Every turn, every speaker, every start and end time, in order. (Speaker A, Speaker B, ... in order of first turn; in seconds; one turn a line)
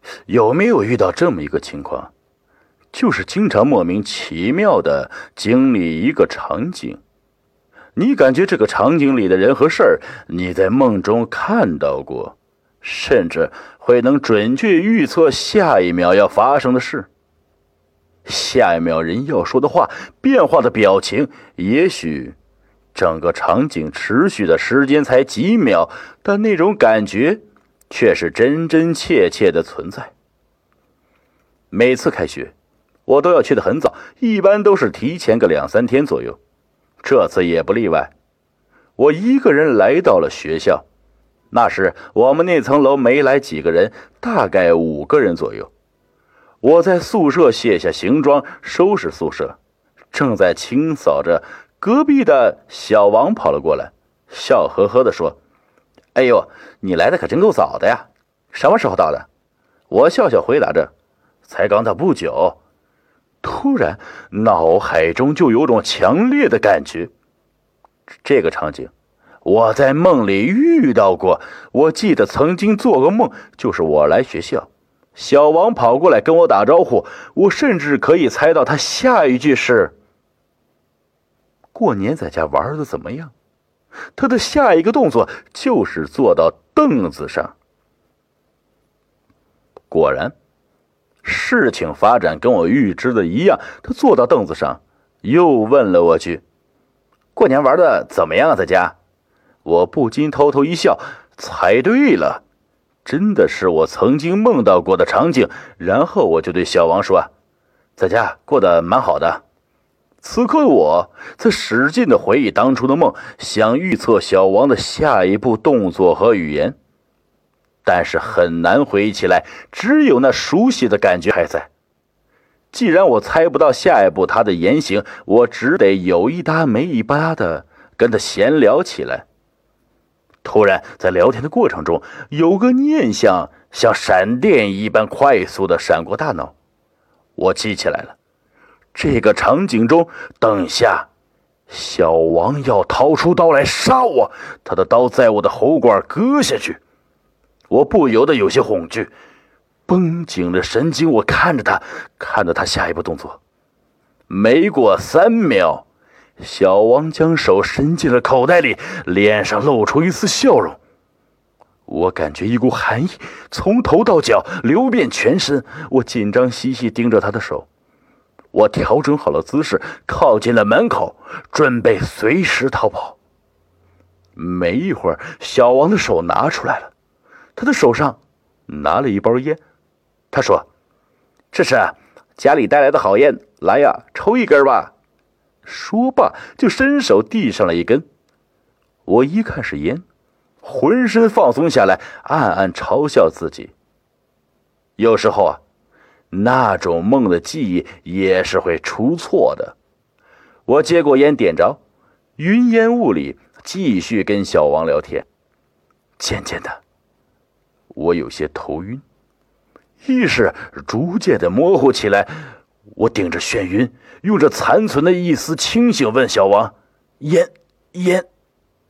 Speaker A: 0.3-2.1
Speaker A: 2.9-7.0
Speaker A: 8.0-17.1
Speaker A: 18.3-22.4
Speaker A: 22.9-30.1
Speaker A: 31.7-32.5
Speaker A: 33.1-36.4
Speaker A: 37.0-38.1
Speaker A: 39.0-40.9
Speaker A: 41.5-45.7
Speaker A: 46.6-49.6
Speaker A: 50.1-55.4
Speaker A: 56.1-59.3
Speaker A: 59.9-60.9
Speaker A: 61.5-62.6
Speaker A: 63.4-67.1
Speaker A: 68.2-68.9
Speaker A: 69.4-79.9
Speaker A: 81.7-83.3
Speaker A: 84.2-87.5
Speaker A: 89.9-90.3
Speaker A: 91.2-96.4
Speaker A: 97.3-99.0
Speaker A: 99.7-102.4
Speaker A: 103.0-107.3
Speaker A: 108.0-109.4
Speaker A: 110.2-116.8
Speaker A: 117.8-121.7
Speaker A: 122.7-129.2
Speaker A: 130.4-136.5
Speaker A: 137.4-138.2
Speaker A: 138.9-141.1
Speaker A: 141.7-146.8
Speaker A: 147.7-149.1
Speaker A: 149.9-153.4
Speaker A: 154.3-155.8
Speaker A: 156.4-160.8
Speaker A: 161.9-167.7
Speaker A: 168.5-173.2
Speaker A: 174.4-176.9
Speaker A: 177.6-179.6
Speaker A: 180.3-180.7
Speaker A: 181.5-184.9
Speaker A: 185.7-188.1
Speaker A: 189.1-190.0
Speaker A: 190.6-193.7
Speaker A: 195.0-195.6
Speaker A: 196.3-199.8
Speaker A: 200.7-201.8
Speaker A: 202.4-205.2
Speaker A: 206.2-206.8
Speaker A: 207.9-209.0
Speaker A: 210.0-212.4
Speaker A: 213.0-218.3